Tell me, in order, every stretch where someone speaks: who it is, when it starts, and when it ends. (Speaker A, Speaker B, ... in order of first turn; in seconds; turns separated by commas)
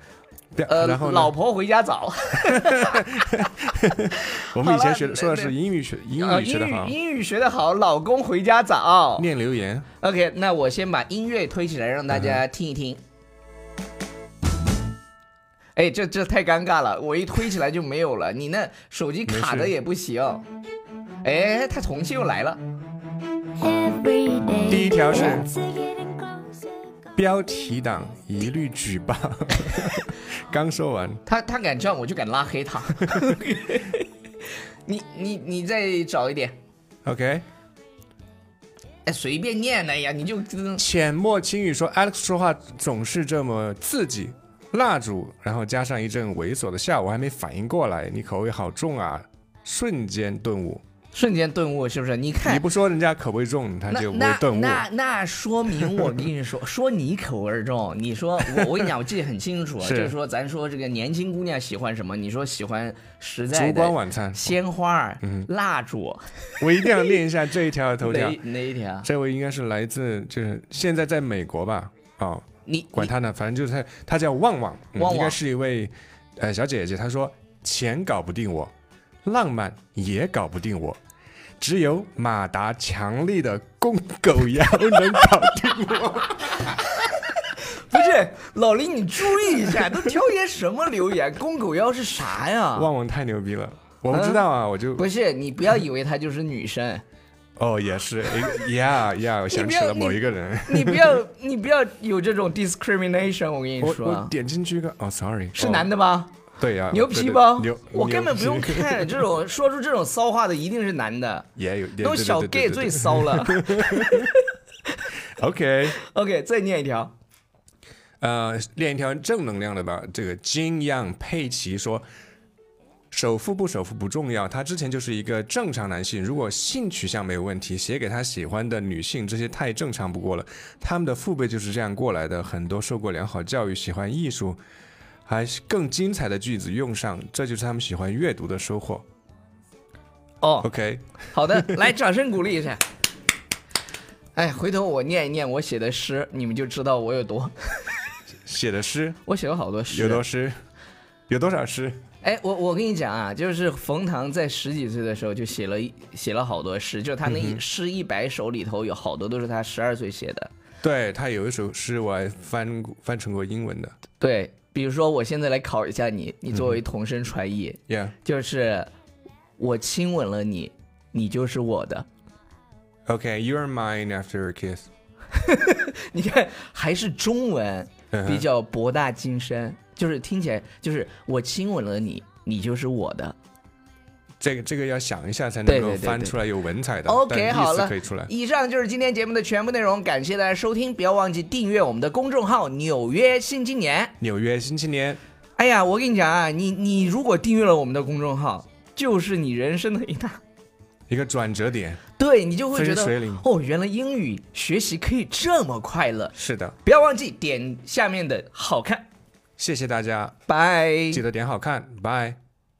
Speaker A: 0.6-1.3, Speaker B: 0.7-3.5, Speaker A: 2.5-7.0, Speaker B: 4.1-5.5, Speaker B: 6.2-9.3, Speaker A: 9.2-9.9, Speaker B: 10.0-13.0, Speaker A: 12.1-12.4, Speaker B: 15.8-20.4, Speaker A: 19.3-19.7, Speaker B: 21.2-22.6, Speaker C: 23.6-26.9, Speaker A: 24.7-25.5, Speaker A: 27.2-31.2, Speaker B: 31.3-34.1, Speaker B: 34.9-36.5, Speaker A: 37.0-37.5, Speaker B: 39.0-40.8, Speaker A: 40.8-50.8, Speaker B: 51.1-52.6, Speaker A: 52.4-54.8, Speaker B: 53.9-67.1, Speaker A: 55.8-56.2, Speaker A: 59.8-60.1, Speaker A: 63.5-64.6, Speaker A: 65.2-65.5, Speaker A: 66.6-68.4, Speaker B: 68.0-69.1, Speaker A: 69.0-78.7, Speaker B: 72.7-73.1, Speaker B: 75.0-75.4, Speaker A: 79.2-81.0, Speaker A: 81.6-86.8, Speaker B: 87.5-92.9, Speaker A: 92.8-95.1, Speaker B: 94.1-94.4, Speaker B: 95.0-97.0, Speaker A: 97.6-101.2, Speaker B: 99.5-104.3, Speaker A: 103.8-105.9, Speaker B: 105.5-106.3, Speaker A: 106.6-109.2, Speaker B: 106.9-111.5, Speaker A: 111.6-114.3, Speaker B: 112.0-114.4, Speaker A: 115.4-116.0, Speaker B: 116.0-117.1, Speaker A: 118.2-122.0, Speaker A: 123.1-134.6, Speaker A: 135.3-139.0, Speaker B: 140.4-140.7, Speaker A: 140.6-141.8, Speaker B: 141.3-142.8, Speaker B: 144.3-148.0, Speaker A: 148.5-149.2, Speaker B: 149.3-150.2, Speaker A: 149.9-150.6, Speaker A: 151.3-152.0, Speaker B: 152.2-160.5, Speaker A: 157.2-157.6, Speaker A: 160.8-163.9, Speaker B: 164.2-168.9, Speaker A: 167.9-168.2, Speaker B: 169.6-172.1, Speaker A: 173.1-174.9, Speaker B: 175.3-183.4, Speaker A: 178.1-178.5, Speaker A: 184.4-188.3, Speaker B: 185.7-186.4, Speaker B: 187.1-194.1, Speaker A: 194.2-195.2, Speaker B: 195.6-200.4, Speaker A: 201.1-202.0, Speaker B: 202.2-209.1, Speaker A: 202.7-203.4, Speaker A: 206.4-206.8, Speaker A: 209.6-210.3, Speaker B: 210.5-211.2, Speaker A: 211.1-212.4